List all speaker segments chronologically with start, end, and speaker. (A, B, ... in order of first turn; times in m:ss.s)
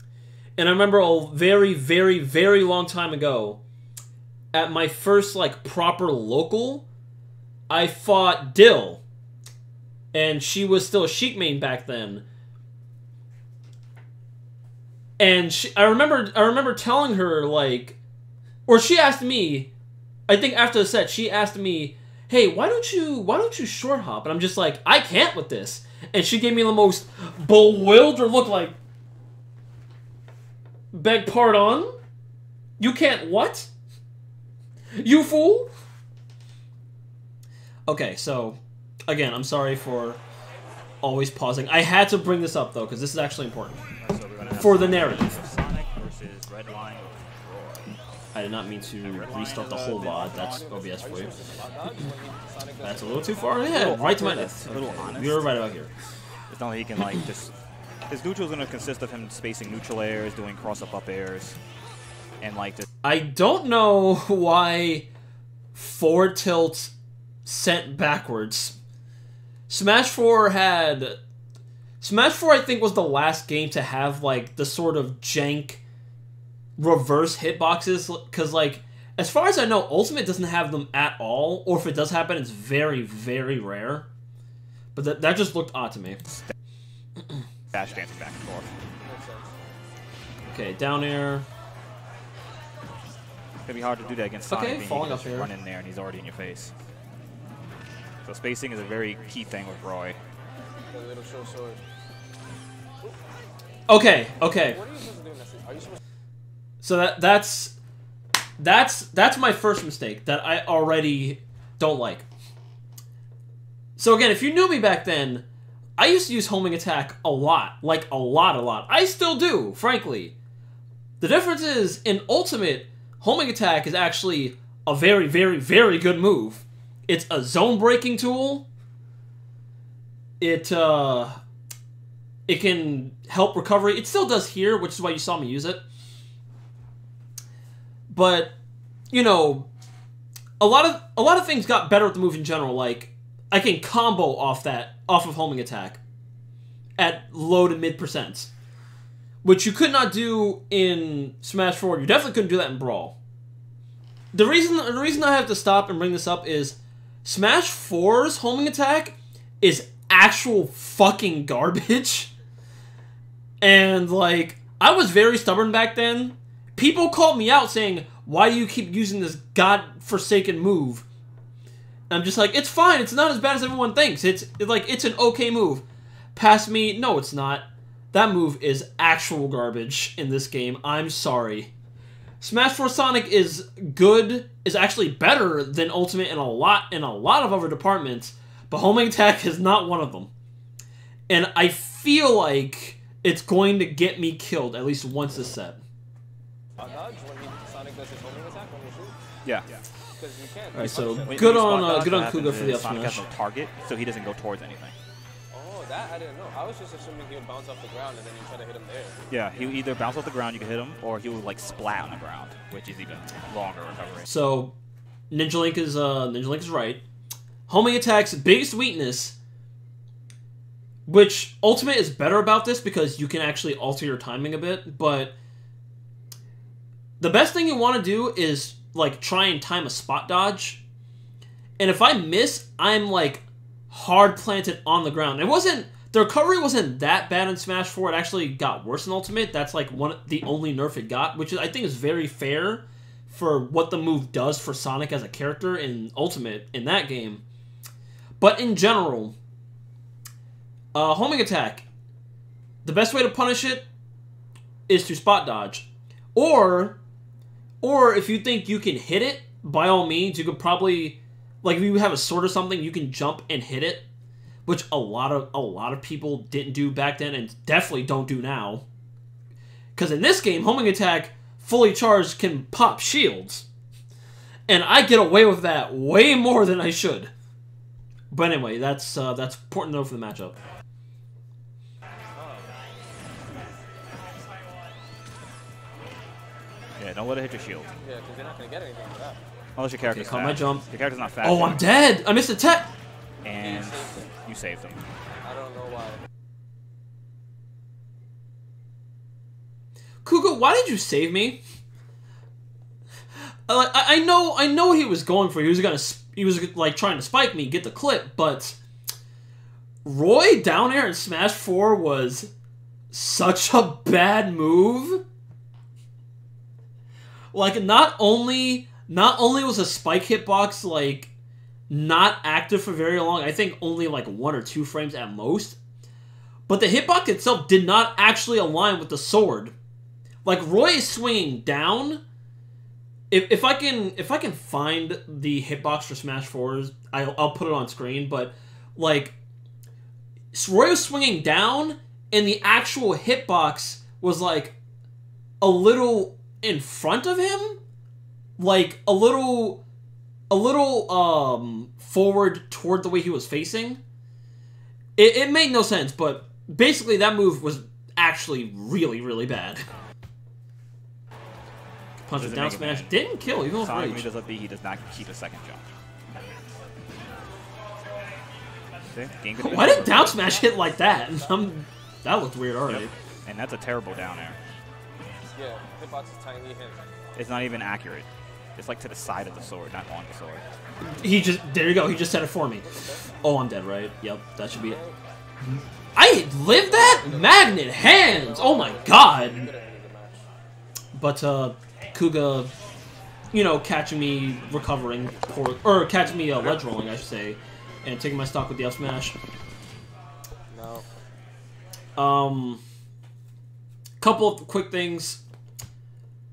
0:00.6-0:03.6 A
0:04.5-0:06.9 A
0:07.7-0:09.0 A
0:10.1-0:12.2 A
0:15.2-0:18.0 A
0:18.7-0:19.7 A
0:20.3-0:28.8 A
0:30.9-0:31.9 A
0:32.8-0:33.7 A
0:35.0-0:35.7 A
0:37.9-0:40.2 A
0:41.0-0:43.8 A
0:44.0-0:47.9 B
0:44.5-0:45.3 A
0:48.3-0:51.4 A
0:49.0-0:50.8 B
0:50.1-0:53.7 C
0:52.8-0:55.9 A
0:53.7-0:55.5 B
0:56.5-0:57.5 B
0:58.1-1:01.6 B
1:02.4-1:02.9 B
1:03.0-1:05.1 A
1:05.7-1:06.9 A
1:07.4-1:08.8 A
1:09.7-1:11.2 A
1:12.0-1:15.8 A
1:16.8-1:24.1 A
1:24.9-1:26.2 A
1:27.7-1:28.7 B
1:29.0-1:29.5 C
1:30.5-1:31.4 A
1:33.6-1:36.7 B
1:34.5-1:35.5 A
1:38.2-1:40.2 B
1:40.9-1:41.8 C
1:43.9-1:44.8 A
1:44.5-1:46.0 C
1:46.8-1:47.8 A
1:48.6-1:52.2 A
1:54.0-1:55.4 A
1:56.0-2:00.4 A
2:01.2-2:08.7 A
2:10.4-2:11.4 A
2:12.5-2:15.8 A
2:18.1-2:18.5 A
2:19.1-2:19.7 A
2:20.6-2:26.0 A
2:27.0-2:28.5 A
2:29.4-2:33.2 A
2:34.3-2:42.3 A
2:43.6-2:51.0 A
2:52.1-2:55.8 A
2:56.3-3:01.7 A
3:02.4-3:10.3 A
3:11.3-3:15.8 A
3:16.8-3:19.2 C
3:19.4-3:19.8 B
3:20.2-3:21.5 C
3:20.7-3:23.2 A
3:21.2-3:25.0 B
3:25.5-3:29.6 C
3:29.3-3:34.3 B
3:34.2-3:34.7 A
3:35.3-3:37.0 A
3:37.7-3:39.4 A
3:41.1-3:45.3 A
3:47.2-3:50.8 A
3:51.8-4:07.4 A
4:08.4-4:09.3 A
4:10.9-4:11.8 A
4:12.8-4:13.8 A
4:14.9-4:17.0 A
4:17.8-4:24.0 A
4:24.6-4:28.8 A
4:29.9-4:33.7 A
4:34.7-4:37.3 A
4:38.3-4:40.6 A
4:42.4-4:42.7 C
4:47.0-4:47.9 B
4:48.0-4:49.4 C
4:49.8-4:51.8 B
4:50.0-4:50.8 A
4:51.4-4:52.9 A
4:53.4-4:55.0 B
4:53.6-4:54.3 C
4:55.4-4:56.2 C
5:00.2-5:01.6 A
5:03.7-5:08.8 A
5:10.0-5:12.5 A
5:13.1-5:15.2 A
5:17.5-5:21.3 A
5:21.9-5:25.8 A
5:26.7-5:29.7 A
5:30.4-5:32.2 A
5:33.3-5:39.3 A
5:40.5-5:44.8 A
5:45.6-5:47.8 A
5:48.6-5:49.8 A
5:50.5-5:54.0 A
5:55.2-5:59.8 A
6:02.2-6:04.3 A
6:02.3-6:03.1 B
6:03.7-6:05.8 B
6:09.1-6:10.5 B
6:09.6-6:13.1 A
6:12.9-6:14.6 B
6:15.5-6:17.0 C
6:17.3-6:20.6 B
6:21.0-6:22.9 A
6:22.9-6:23.3 C
6:23.4-6:25.0 A
6:24.7-6:25.1 C
6:26.2-6:29.7 A
6:26.7-6:30.4 C
6:31.1-6:32.7 A
6:33.5-6:39.4 A
6:40.7-6:41.0 C
6:42.2-6:42.8 A
6:44.2-6:45.4 A